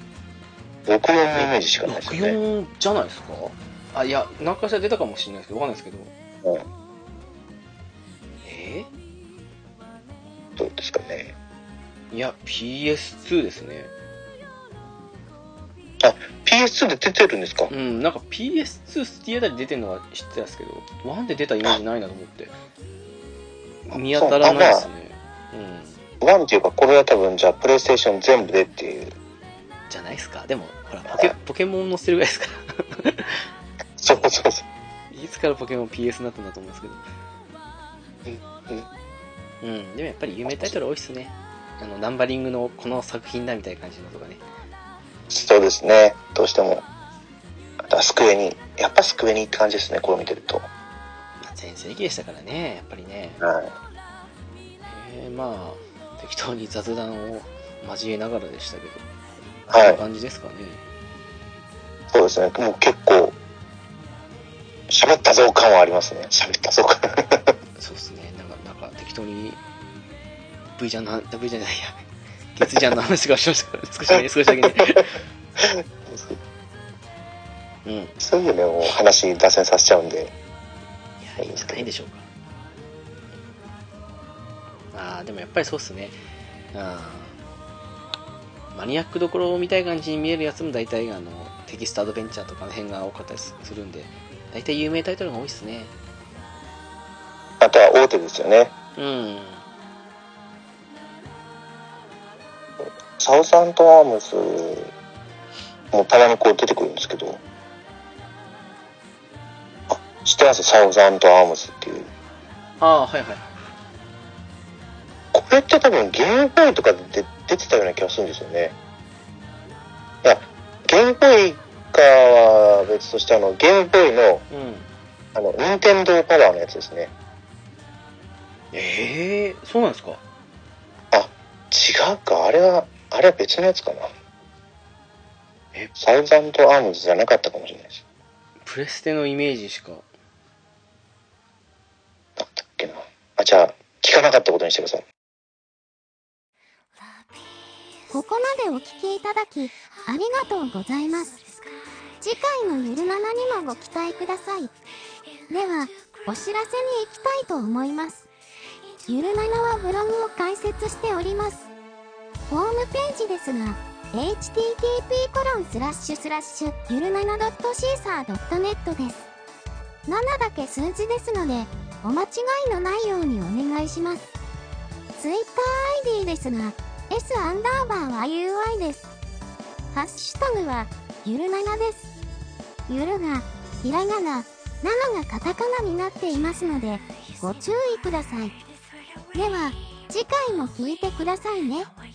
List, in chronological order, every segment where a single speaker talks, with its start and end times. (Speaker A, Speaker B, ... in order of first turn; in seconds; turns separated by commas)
Speaker A: 0.9-2.4, Speaker B: 1.3-6.1, Speaker B: 8.4-8.9, Speaker A: 10.6-11.3, Speaker B: 12.1-13.9, Speaker A: 16.0-17.7, Speaker B: 17.7-22.5, Speaker B: 23.9-26.0, Speaker A: 23.9-24.9, Speaker A: 26.2-29.1, Speaker B: 29.9-33.4, Speaker A: 31.1-31.3, Speaker A: 34.0-34.6, Speaker B: 35.1-37.0, Speaker A: 38.2-38.9, Speaker B: 39.6-44.4, Speaker A: 40.5-40.8, Speaker A: 45.3-46.9, Speaker A: 47.8-50.7, Speaker B: 51.4-53.4, Speaker A: 53.4-53.7, Speaker B: 54.9-59.0, Speaker B: 59.7-60.8, Speaker A: 59.7-60.0, Speaker A: 62.1-63.4, Speaker A: 64.9-67.5, Speaker B: 67.8-69.6, Speaker B: 70.8-72.0, Speaker B: 72.5-75.1, Speaker A: 74.6-75.0, Speaker A: 75.6-76.4, Speaker B: 77.8-78.2, Speaker A: 78.2-80.3, Speaker B: 81.2-82.3, Speaker A: 81.4-81.9, Speaker B: 84.9-86.2, Speaker B: 86.7-87.4, Speaker B: 88.7-95.9, Speaker A: 97.6-98.7, Speaker B: 99.0-99.6, Speaker A: 102.8-104.9, Speaker A: 105.9-107.4, Speaker A: 109.9-112.1, Speaker B: 112.8-113.5, Speaker A: 115.3-118.8, Speaker A: 120.2-124.5, Speaker B: 124.5-124.9, Speaker A: 125.3-127.1, Speaker B: 128.7-130.2, Speaker A: 131.1-134.1, Speaker A: 136.0-138.0, Speaker B: 138.7-140.1, Speaker A: 142.4-145.0, Speaker C: 148.1-151.4, Speaker C: 152.2-154.7, Speaker C: 155.5-158.3, Speaker C: 159.1-161.7, Speaker C: 162.5-169.3, Speaker C: 170.1-174.3, Speaker C: 175.2-179.1, Speaker C: 179.9-182.1, Speaker C: 182.9-188.6, Speaker C: 189.3-191.9